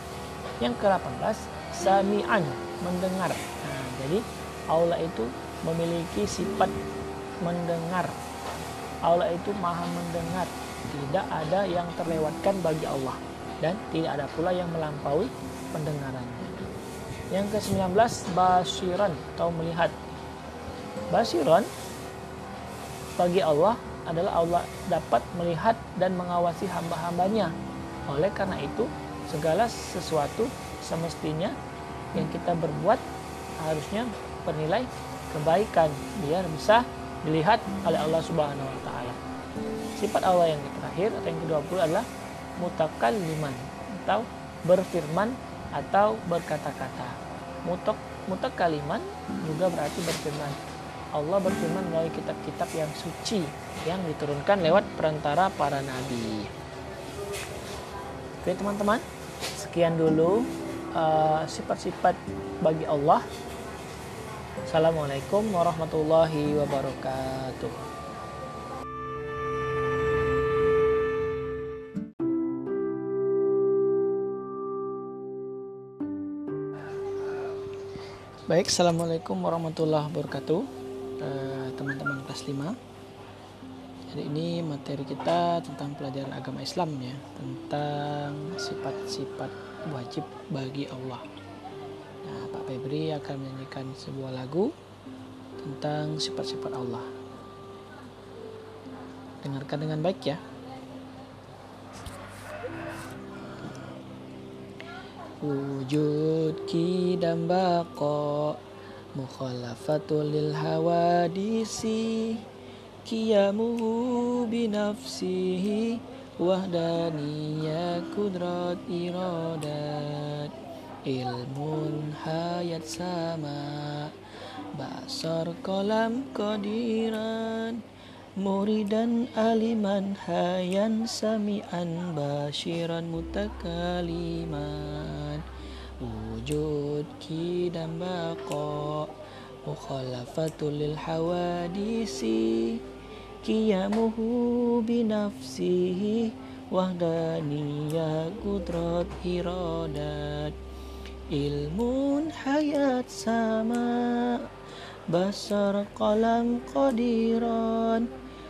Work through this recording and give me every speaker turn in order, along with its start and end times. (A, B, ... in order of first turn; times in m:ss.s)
0:00.6-0:06.7 A
0:07.4-0:08.2 A
0:09.0-0:16.5 A
0:17.3-0:19.9 A
0:21.1-0:21.7 A
0:23.2-0:27.5 A
0:28.1-0:31.6 A
0:32.1-0:33.0 A
0:33.6-0:39.2 A
0:39.9-0:42.1 A
0:42.6-0:50.6 A
0:51.1-0:56.5 A
0:58.4-1:03.2 A
1:04.7-1:07.8 A
1:18.5-1:20.7 A
1:21.2-1:22.8 A
1:24.1-1:31.2 A
1:32.2-1:34.7 A
1:35.6-1:37.1 A
1:39.4-1:40.4 A
1:45.4-1:48.6 A
1:49.1-1:52.4 A
1:53.0-2:00.5 A
2:01.0-2:04.1 A
2:04.7-2:07.8 A
2:08.4-2:15.4 A
2:16.0-2:19.1 A
2:19.6-2:22.8 A
2:23.4-2:30.6 A
2:31.3-2:34.4 A
2:35.1-2:38.1 A